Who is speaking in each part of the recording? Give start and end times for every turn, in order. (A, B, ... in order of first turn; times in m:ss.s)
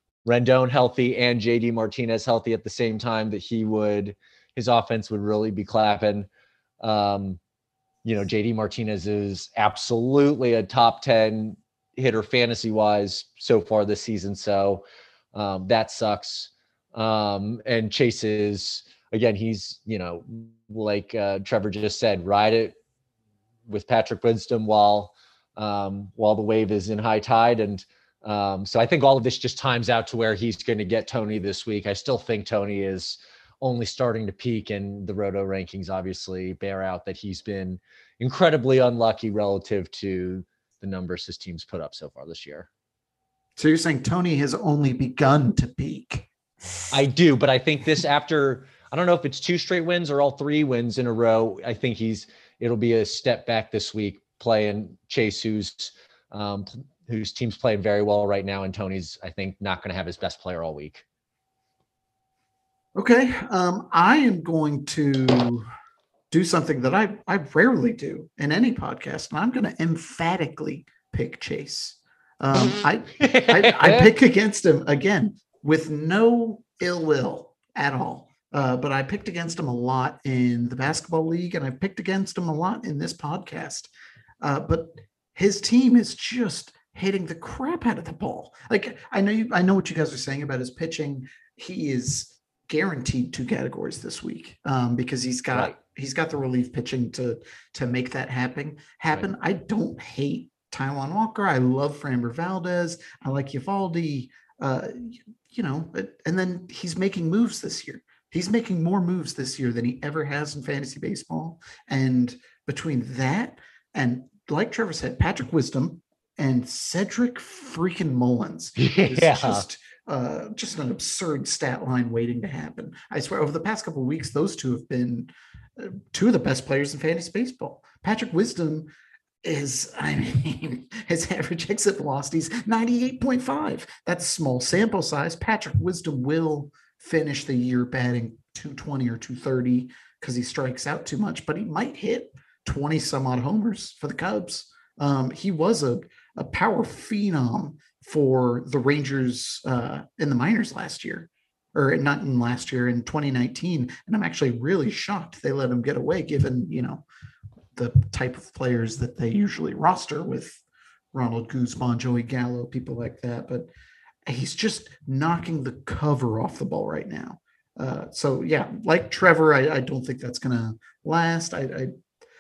0:00.2-0:06.3 A
0:06.8-0:07.4 A
0:08.0-0:22.8 A
0:23.7-0:42.7 A
0:43.6-0:46.3 B
0:46.9-1:01.0 A
1:03.0-1:05.7 B
1:06.3-1:23.9 B
1:13.2-1:14.0 A
1:24.4-2:08.9 B
1:58.8-1:59.7 A
2:09.4-2:37.0 B
2:37.8-2:40.6 B
2:41.1-2:43.7 B
2:44.3-2:51.9 B